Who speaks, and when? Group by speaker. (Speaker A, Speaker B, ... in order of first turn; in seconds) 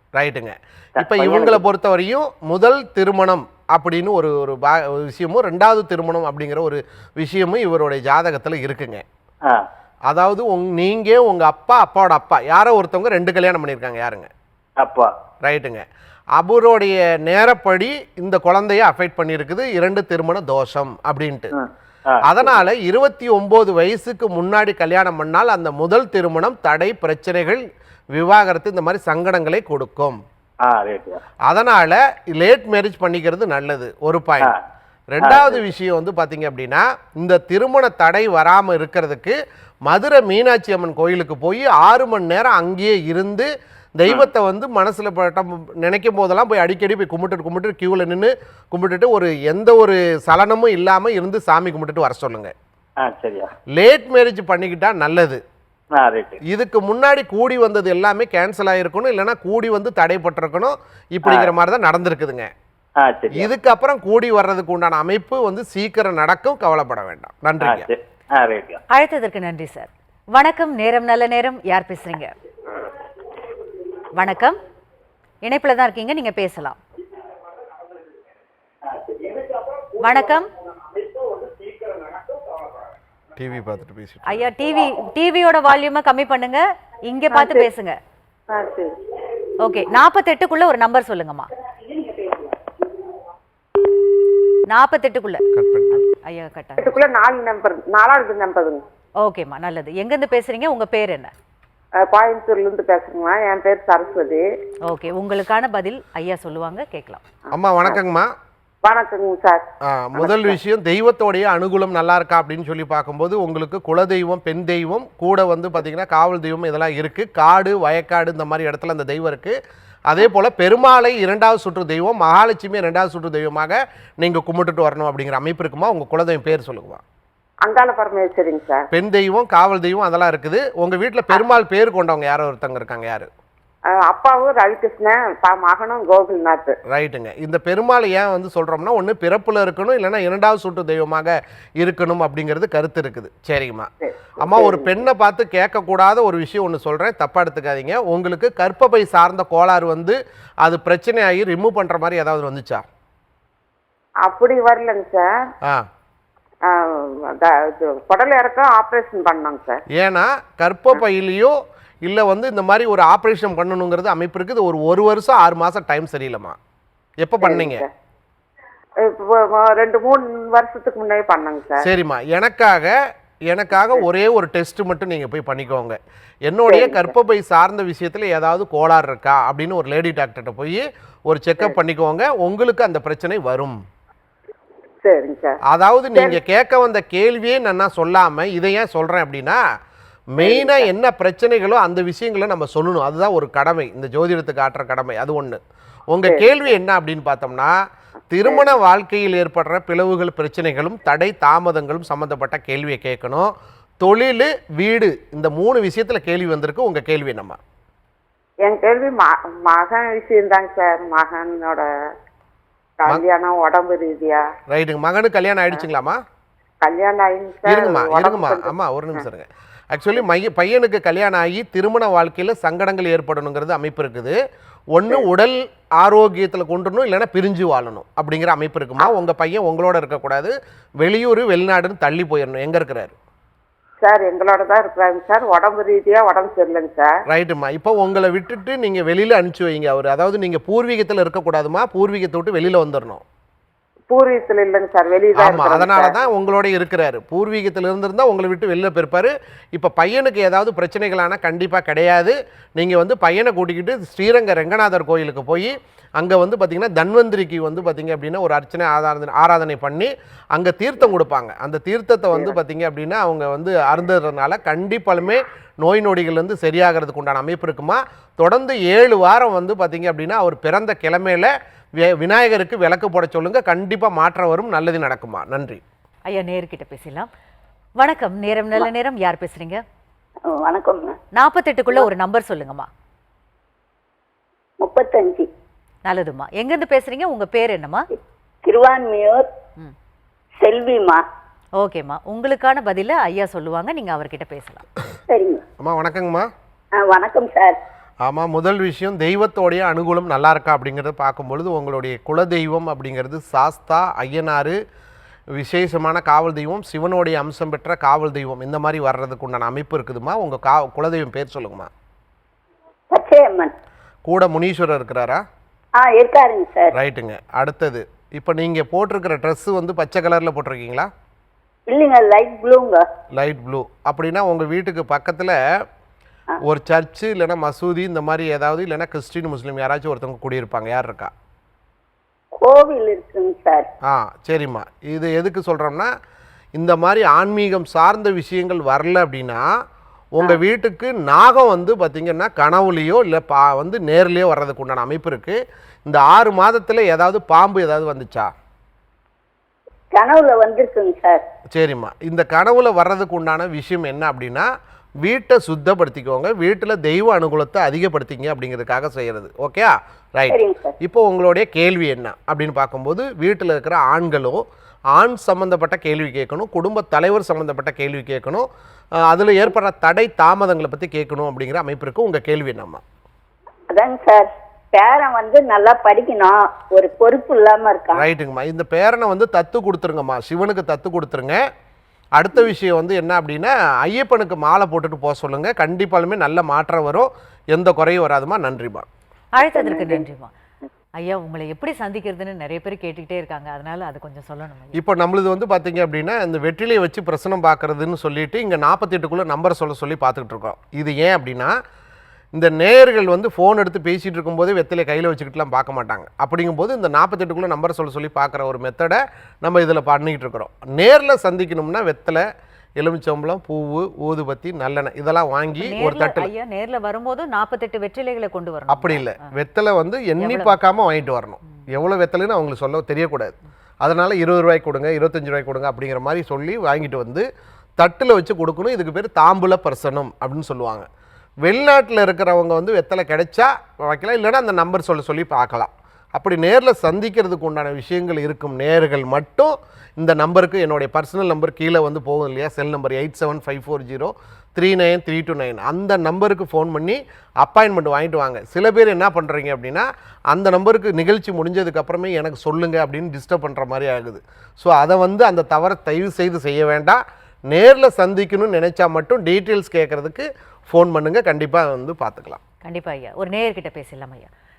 Speaker A: 0.1-9.0, 10.1-14.3, 15.4-15.8, 16.4-21.5, 22.2-30.2, 31.5-34.5, 35.1-52.5, 53.8-55.4, 56.5-62.5, 63.3-67.9, 83.4-84.5, 95.5-96.0, 107.5-108.3, 109.8-119.6, 120.1-127.0, 128.9-133.3, 136.9-152.8, 159.9-166.6, 167.2-167.8, 171.8-173.0, 173.5-183.8, 185.7-189.6, 190.3-195.6, 196.1-197.8, 198.3-207.6, 214.7-216.2, 217.7-224.4, 224.9-233.1, 237.3-243.2, 245.3-275.8, 295.8-296.5, 298.2-304.8, 305.5-311.9, 314.3-315.4, 316.9-321.1, 323.4-325.6, 326.6-331.3, 334.1-336.1, 336.8-339.6, 340.4-348.5, 351.7-354.7, 355.2-364.6, 365.1-368.7, 369.2-373.0, 378.1-381.6, 382.4-389.1, 394.9-401.7, 402.5-412.4, 413.0-416.5, 418.9-427.5, 428.0-431.1, 431.6-462.6
Speaker B: 1.0-1.6, 14.8-15.1, 21.6-22.6, 30.6-31.2, 35.2-35.6, 53.0-53.5, 56.0-56.4, 61.2-61.5, 63.0-63.5, 67.6-68.8
Speaker C: 68.9-72.3, 74.1-74.5, 75.4-76.8, 80.0-80.5, 84.3-88.0, 89.6-91.5, 94.7-95.4, 96.0-96.9, 99.2-101.3, 104.9-107.2, 276.3-277.3, 278.0-279.8, 281.4-282.9, 286.1-288.1, 291.8-294.8, 389.5-390.5, 391.2-395.0, 415.8-419.4, 420.4-420.8, 462.8-464.5
Speaker D: 87.3-87.7, 88.5-88.9, 96.8-98.8, 102.0-104.4, 108.8-109.6, 110.2-110.6, 127.6-128.9, 133.9-136.8, 144.0-144.9, 154.2-155.4, 156.7-159.8, 167.4-167.9, 169.0-171.9, 176.7-177.1, 185.0-185.6, 190.4-190.9, 196.3-196.5, 208.6-211.9, 213.0-214.4, 216.8-219.3, 234.0-237.1, 244.1-246.2
Speaker E: 92.0-92.3, 280.5-281.2, 284.8-285.5, 288.6-289.5, 290.6-291.2, 295.3-295.6, 297.0-297.8, 313.1-313.7, 316.0-316.9, 321.9-323.0, 332.6-333.9, 350.1-351.4, 360.5-360.9, 373.9-378.2, 389.8-390.2